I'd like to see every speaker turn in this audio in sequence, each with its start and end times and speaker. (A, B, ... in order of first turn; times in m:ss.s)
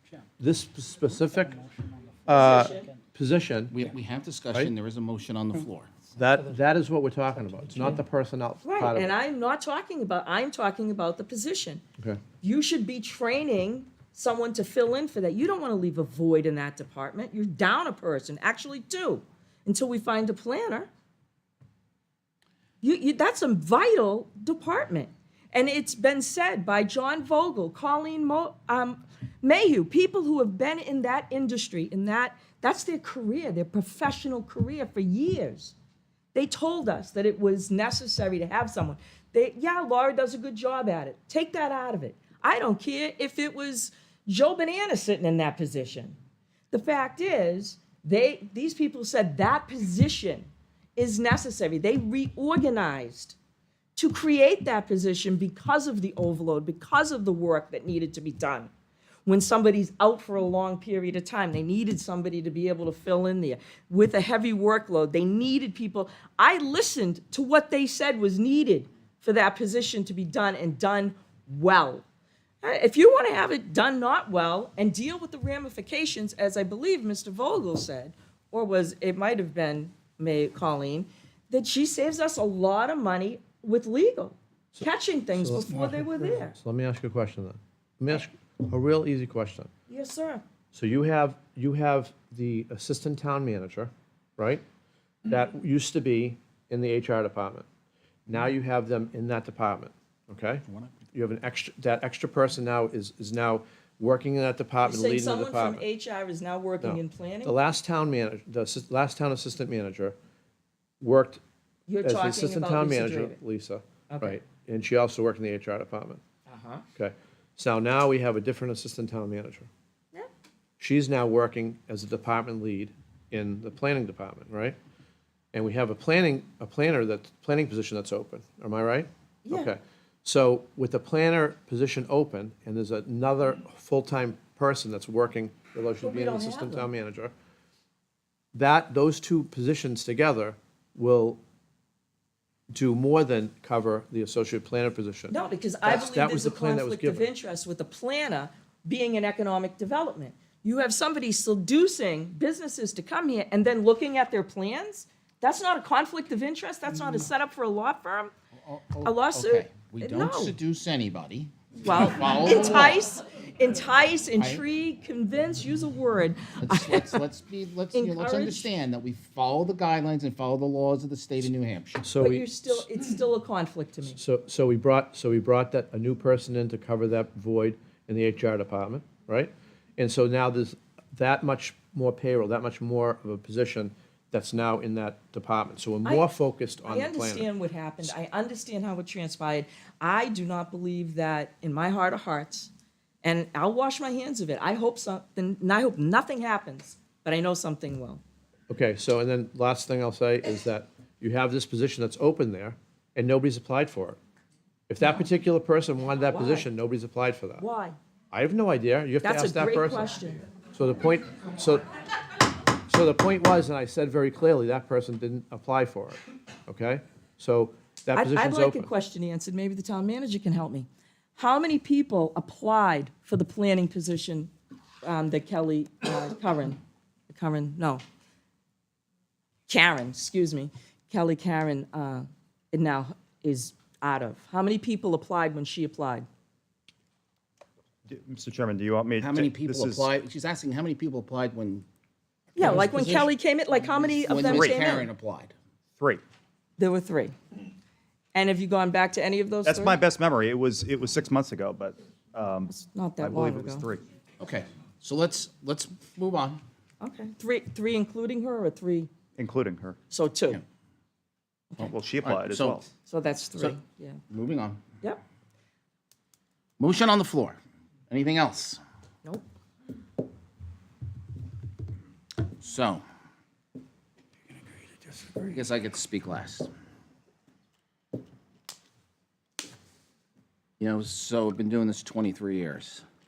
0:00.4-0:01.6 A
0:02.3-0:03.8 A
0:02.3-0:02.9 B
0:03.7-0:05.9 C
0:06.2-0:09.1 A
0:08.6-0:11.8 B
0:12.4-0:20.9 B
0:22.8-0:35.7 B
0:36.3-0:46.2 B
0:46.7-0:53.4 B
0:54.0-0:58.7 B
0:59.3-1:12.0 B
1:12.6-1:26.6 B
1:24.8-1:29.7 A
1:29.9-1:30.4 B
1:30.7-1:34.6 A
1:35.3-1:37.7 A
1:38.3-1:45.8 A
1:44.8-1:47.5 B
1:46.8-1:50.2 A
1:51.0-1:51.4 A
1:51.9-1:53.4 B
1:52.0-1:56.2 A
1:54.1-1:54.4 B
1:56.5-1:56.8 B
1:57.0-1:59.7 A
2:00.8-2:04.8 A
2:05.5-2:17.3 A
2:09.4-2:09.7 B
2:16.0-2:16.9 B
2:18.5-2:21.4 A
2:22.7-2:27.3 A
2:25.3-2:38.3 B
2:38.6-2:43.1 C
2:39.0-2:40.6 B
2:41.8-2:47.2 B
2:44.4-2:44.6 C
2:46.6-2:52.0 C
2:48.0-2:48.7 B
2:52.0-2:52.8 A
2:52.2-2:54.2 B
2:54.2-3:07.5 A
3:06.0-3:06.3 B
3:06.8-3:12.7 B
3:13.2-3:18.2 B
3:18.7-3:24.2 A
3:24.9-3:27.7 A
3:26.3-3:26.7 B
3:27.6-3:28.0 B
3:28.3-3:30.1 A
3:29.2-3:30.4 B
3:30.7-3:31.8 A
3:32.9-3:38.9 A
3:38.1-3:44.5 B
3:45.0-3:48.0 B
3:49.7-3:56.3 B
3:58.1-4:00.1 D
3:59.2-4:01.9 C
4:02.6-4:05.1 B
4:02.6-4:03.3 C
4:04.1-4:05.5 C
4:06.8-4:07.3 B
4:08.3-4:10.0 B
4:09.7-4:14.0 D
4:12.7-4:13.9 B
4:14.4-4:16.6 C
4:17.0-4:19.1 B
4:19.4-4:20.0 D
4:20.1-4:20.6 B
4:21.8-4:22.9 D
4:21.8-4:22.8 C
4:23.1-4:24.2 B
4:24.3-4:24.8 C
4:26.8-4:27.6 C
4:28.1-4:28.8 C
4:32.6-4:33.0 C
4:35.3-4:36.7 C
4:40.8-4:43.0 C